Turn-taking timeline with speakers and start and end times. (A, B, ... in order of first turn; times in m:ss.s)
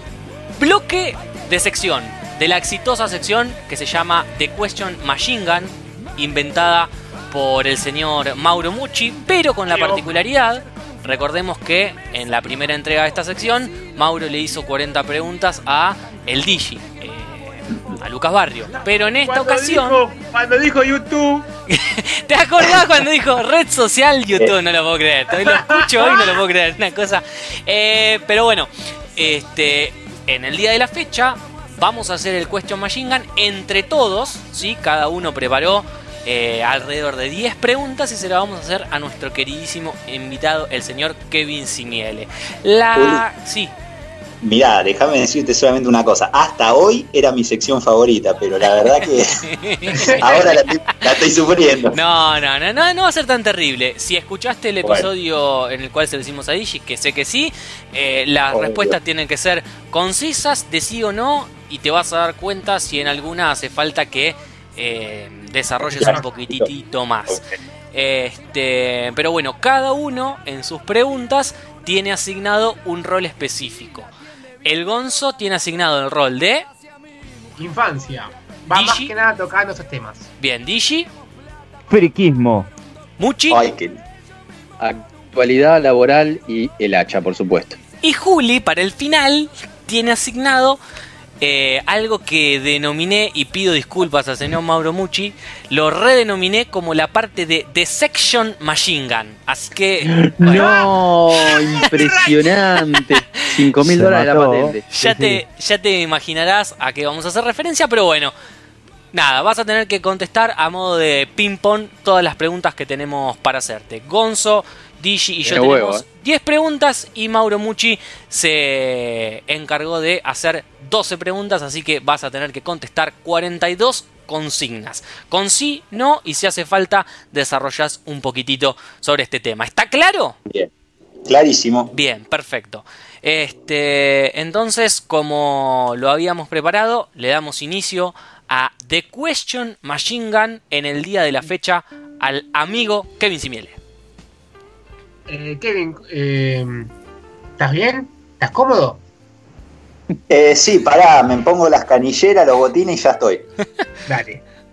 0:00.6-0:20.0 A
0:09.7-0:10.2 B
0:19.2-0:21.5 B
0:21.7-0:43.7 A
0:25.4-0:26.2 B
0:43.0-0:43.2 C
0:44.4-0:49.5 C
0:49.3-0:50.6 A
0:50.2-0:52.0 C
0:51.9-1:07.4 A
0:54.8-0:55.1 C
0:58.5-0:59.0 C
1:05.9-1:06.7 C
1:06.0-1:06.3 B
1:07.9-1:14.1 A
1:14.6-1:16.7 A
1:17.6-1:20.3 B
1:18.7-1:19.1 A
1:20.4-1:21.1 A
1:21.9-1:22.7 D
1:23.2-1:23.6 A
1:23.5-1:24.0 C
1:24.8-1:27.8 E
1:28.0-1:30.8 A
1:31.4-1:40.8 A
1:40.1-1:44.8 E
1:40.4-1:41.0 B
1:41.5-1:42.4 B
1:43.8-1:45.4 D
1:44.9-1:48.3 A
1:49.1-2:10.4 A
1:55.5-1:56.0 E
2:11.2-2:11.9 C
2:11.9-2:23.8 A
2:25.3-2:26.9 B
2:27.6-2:29.0 B
2:30.3-2:33.5 C
2:34.1-2:34.4 B